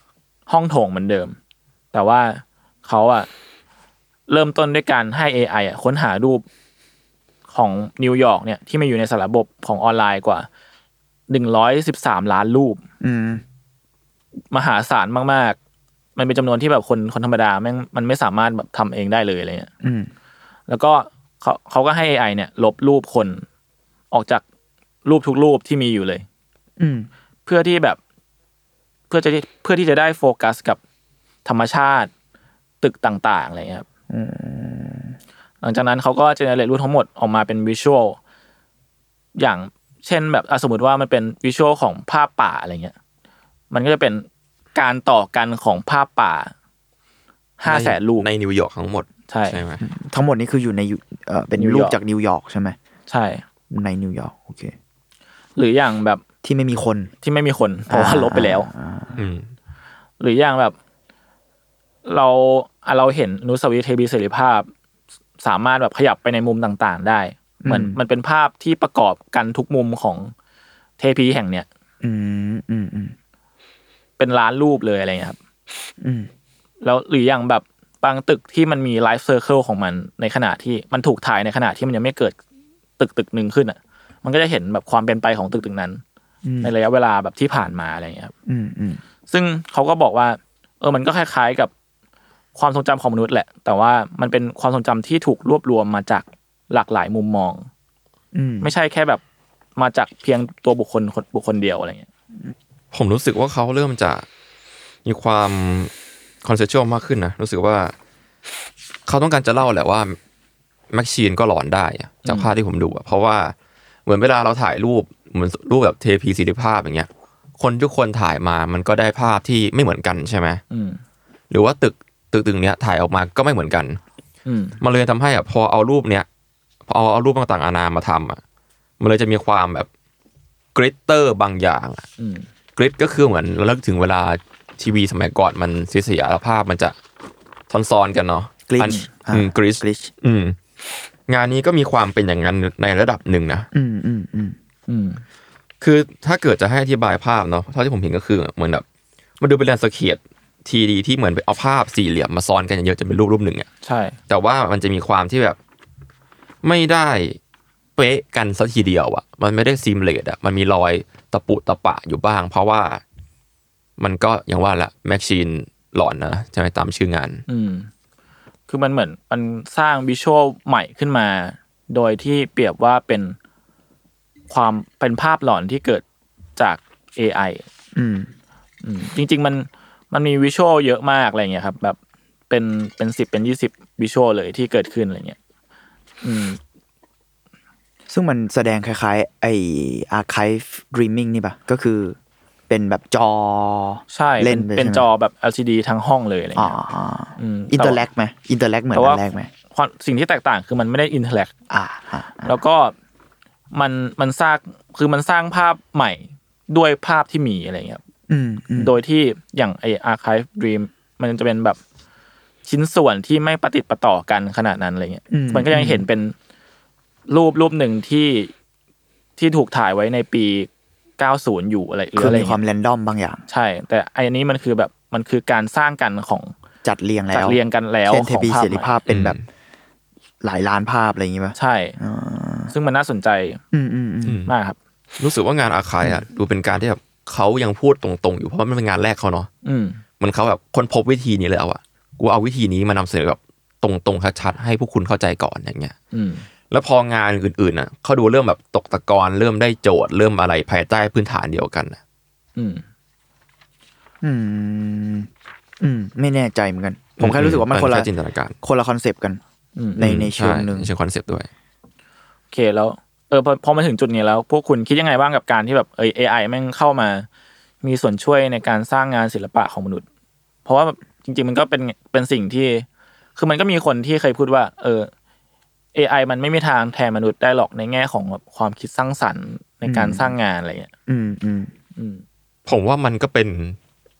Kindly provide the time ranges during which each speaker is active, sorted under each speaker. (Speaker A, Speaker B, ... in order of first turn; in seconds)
Speaker A: 0.5-1.4, 1.9-3.3, 4.3-6.4, 7.5-10.5, 11.3-12.8, 14.5-15.6, 16.1-19.7, 20.7-23.4, 24.1-24.4, 25.0-26.2, 27.4-28.0, 29.1-30.8, 31.4-32.1, 32.8-33.9, 35.6-38.2, 39.4-42.9, 43.7-46.5, 47.6-48.3, 49.3-49.6, 51.5-52.0, 53.1-53.4, 55.5-56.2, 57.2-58.7, 60.2-60.8, 62.0-64.7, 65.4-70.3, 71.0-71.7, 74.2-75.4, 76.8-82.4, 83.0-86.0, 86.6-88.3, 89.3-91.7, 92.5-97.7, 98.6-99.2, 99.8-102.1, 112.2-112.5, 120.7-121.0, 124.5-124.8, 132.2-132.4, 144.9-145.2, 153.8-154.2, 167.5-167.9, 168.7-173.4, 174.5-176.0, 176.6-177.6, 178.8-182.0, 182.5-185.4, 186.2-186.6, 194.1-196.8, 197.4-198.1, 198.9-201.5, 202.4-202.9, 203.7-208.0, 208.8-211.8, 212.6-216.3, 217.3-218.5, 219.4-222.6, 223.5-226.5, 227.3-228.9, 231.6-232.0, 232.7-233.6, 234.5-234.8, 239.6-240.0, 246.1-246.4, 252.6-252.8, 262.5-267.3, 267.8-270.0, 270.6-275.1, 275.9-280.9, 281.9-282.2
Speaker B: 13.0-13.4, 19.8-20.1, 26.8-27.1, 34.1-35.1, 49.8-52.8, 53.7-54.7, 56.4-57.1, 57.9-59.1, 67.6-68.0, 72.0-73.1, 76.0-76.3, 86.4-86.7, 88.5-89.0, 98.3-98.7, 138.7-140.1, 143.7-144.6, 177.9-178.3, 188.1-192.2, 192.7-195.1, 196.6-199.5, 201.7-202.6, 208.3-208.9, 215.3-216.0, 222.2-223.4, 226.8-229.4, 230.4-232.7, 233.7-234.4, 254.2-255.3, 255.8-258.1, 258.6-259.4, 259.9-260.9, 279.9-280.3, 281.1-281.7
Speaker C: 47.6-49.8, 59.1-59.5, 102.9-104.2, 105.0-105.9, 106.4-107.9, 109.1-110.2, 110.9-113.5, 114.0-120.6, 121.5-124.0, 124.8-126.2, 126.9-128.4, 129.0-129.9, 130.7-132.1, 132.8-136.9, 137.7-140.6, 141.3-143.7, 145.8-148.8, 149.4-153.7, 154.3-155.6, 156.6-157.4, 158.0-163.0, 164.0-167.4, 229.1-229.4, 234.2-234.5, 235.2-239.5, 240.2-245.9, 246.7-252.0, 257.2-258.6, 260.0-261.5, 282.6-283.8